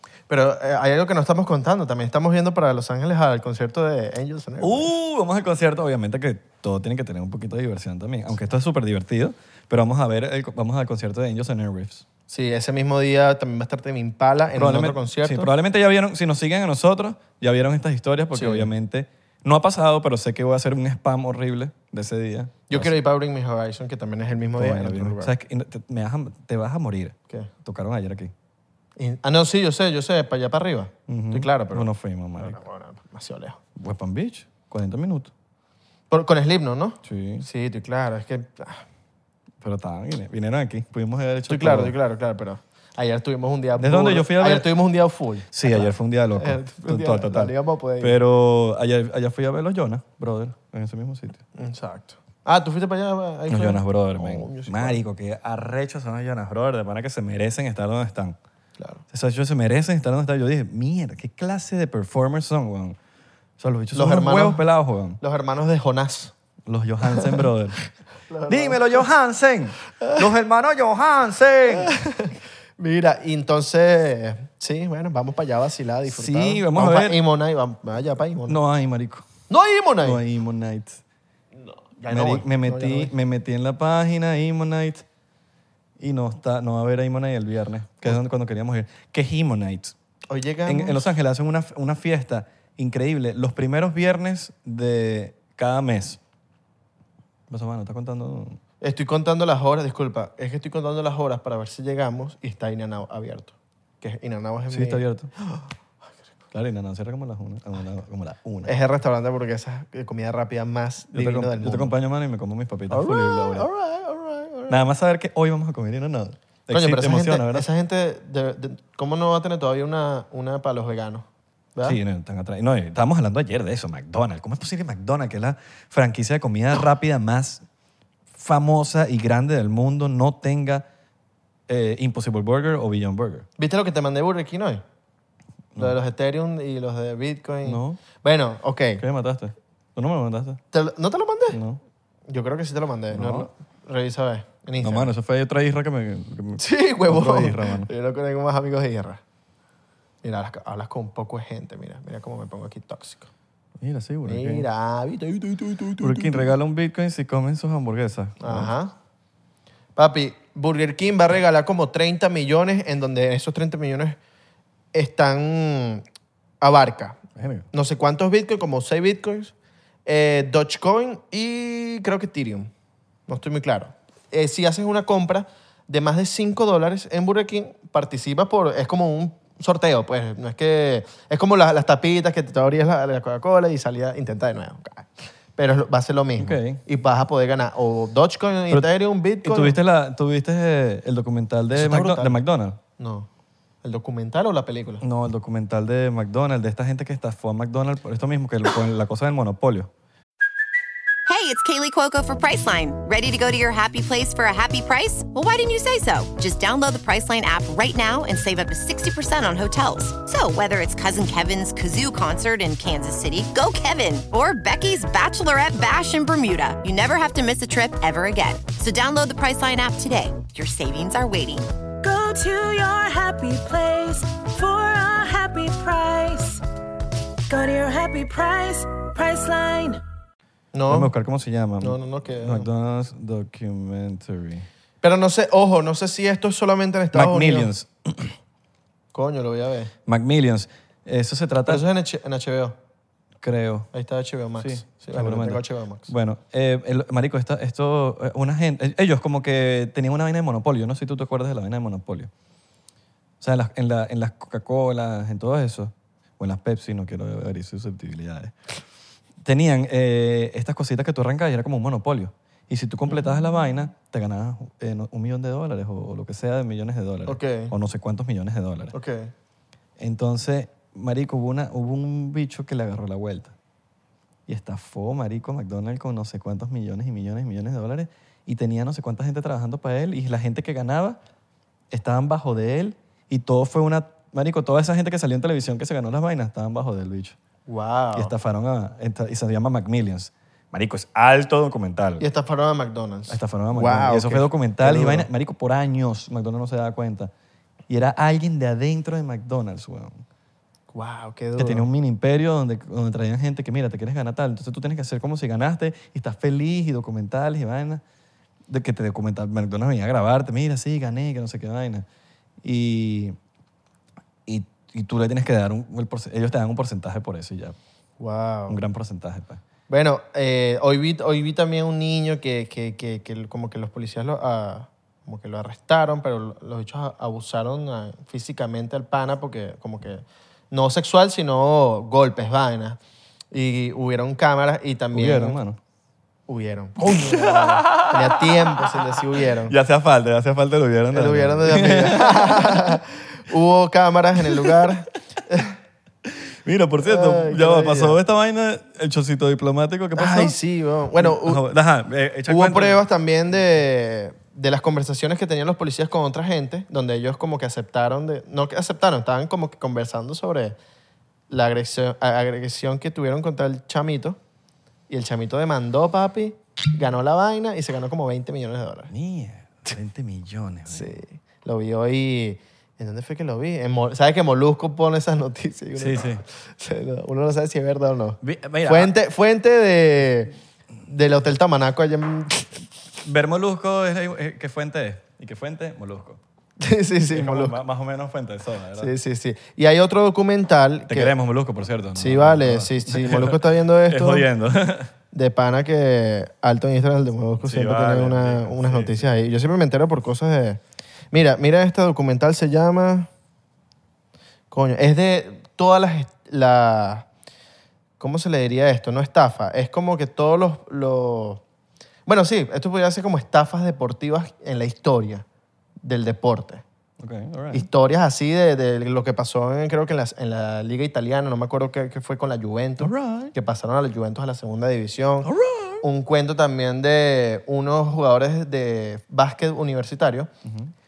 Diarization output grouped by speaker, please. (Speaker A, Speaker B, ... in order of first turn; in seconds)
Speaker A: 0.3-4.9, 12.3-15.5, 18.3-18.7, 22.7-25.3, 29.0-33.6, 36.1-38.8, 41.5-48.2, 51.5-55.0, 63.9-64.6, 65.2-66.3, 67.1-67.4, 68.3-69.0, 71.7-78.6, 79.5-80.2, 81.6-83.1, 90.3-91.1, 98.8-105.7, 108.6-111.9, 112.9-114.8, 116.7-122.0, 133.6-134.8, 135.8-139.0, 140.7-141.6, 142.3-145.1, 146.6-149.2, 150.2-153.3, 154.2-156.5, 158.4-158.9, 159.9-164.2, 164.9-166.0, 166.6-167.2, 167.7-169.5, 170.1-172.7, 173.3-189.8, 191.7-192.4, 193.0-193.3, 193.8-195.0, 230.7-231.1, 231.8-232.7, 235.0-237.7, 239.1-239.9, 241.7-242.8, 243.9-246.1, 267.2-267.7, 268.9-269.3, 287.7-288.3, 292.2-295.3, 300.9-301.9, 318.2-318.8, 319.9-333.0, 333.5-335.6, 336.5-339.7, 341.1-345.7, 347.0-348.2, 350.1-351.6, 352.5-360.8, 361.5-364.4, 365.1-369.1, 370.9-382.7, 386.8-387.8, 389.0-391.3, 392.1-394.5, 395.3-400.8, 401.3-403.3, 404.7-407.3, 408.2-411.6, 412.2-415.4, 416.0-416.8, 417.7-425.5, 426.0-430.5
Speaker B: 4.6-12.0, 14.6-22.9, 24.6-28.3, 31.1-32.6, 33.8-35.3, 37.0-37.5, 39.6-41.9, 43.8-44.7, 45.5-51.4, 53.5-58.4, 59.1-63.0, 63.6-65.2, 66.7-67.8, 68.5-71.9, 76.0-77.2, 78.5-79.3, 80.0-81.0, 82.1-85.0, 86.0-89.9, 90.7-96.2, 97.5-98.6, 104.7-105.3, 106.5-108.7, 111.1-113.7, 114.7-117.7, 121.8-127.6, 128.3-130.8, 131.7-133.5, 137.6-138.0, 139.0-140.6, 141.5-141.8, 143.1-143.5, 144.8-147.9, 153.8-154.7, 156.0-158.7, 167.3-167.7, 186.4-186.8, 189.4-192.8, 195.0-199.9, 230.9-234.7, 237.1-238.3, 240.1-241.8, 243.4-243.9, 244.6-252.3, 253.4-258.5, 259.4-268.9, 270.0-273.5, 274.5-281.2, 281.9-287.4, 288.1-292.2, 293.3-297.3, 297.9-300.2, 301.6-308.0, 308.7-312.1, 312.6-313.4, 314.5-317.8, 318.7-319.6, 335.1-335.8, 337.0-343.0, 344.4-344.9, 346.2-350.6, 351.1-353.0, 369.1-371.1, 375.9-376.4, 378.4-379.1, 383.2-386.4, 387.3-389.1, 391.1-395.1, 397.6-399.3, 417.2-417.9, 423.0-423.5, 425.4-426.0, 430.6-430.9
Speaker C: 201.2-221.7
Speaker D: 222.0-226.6, 227.5-230.0